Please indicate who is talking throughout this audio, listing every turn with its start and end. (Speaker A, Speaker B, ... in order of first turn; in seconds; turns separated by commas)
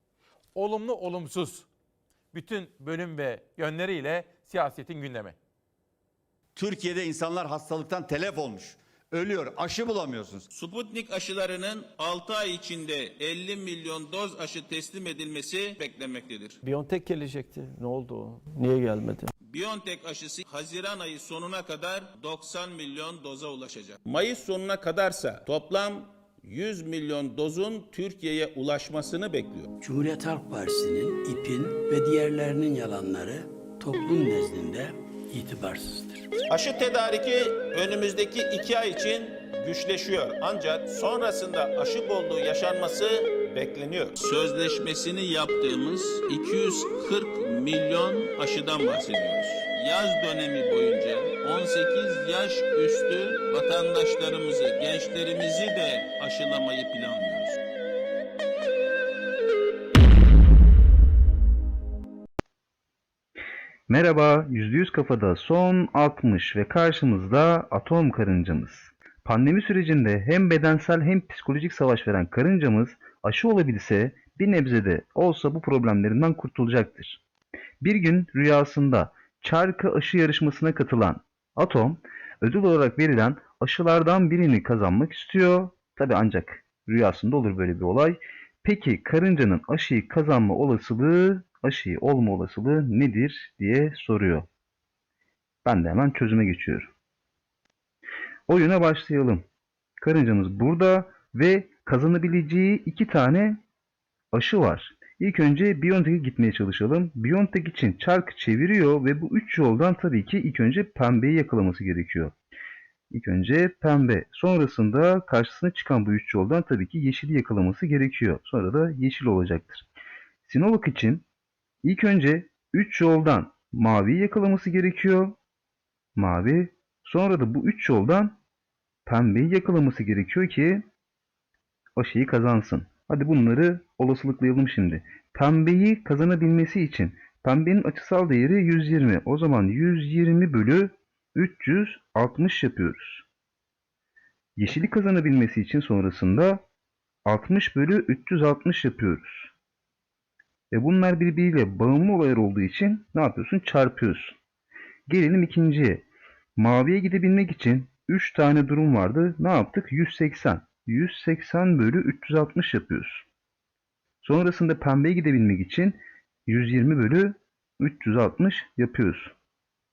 Speaker A: 0.5-1.7, Speaker A: 2.3-5.3, Speaker B: 6.5-10.5, Speaker C: 10.5-16.6, Speaker D: 16.6-19.3, Speaker C: 19.5-29.7, Speaker E: 29.8-36.3, Speaker C: 36.5-57.6, Speaker F: 63.9-77.2, Speaker F: 77.8-94.5, Speaker F: 95.6-96.9, Speaker F: 98.5-99.4, Speaker F: 100.0-103.6, Speaker F: 104.3-112.3, Speaker F: 113.1-119.9, Speaker F: 120.5-121.2, Speaker F: 121.8-125.3, Speaker F: 126.2-128.4, Speaker F: 129.1-130.8, Speaker F: 131.9-143.2, Speaker F: 144.6-146.6, Speaker F: 147.2-149.5, Speaker F: 150.7-154.3, Speaker F: 155.1-156.0, Speaker F: 156.6-163.2, Speaker F: 164.2-169.3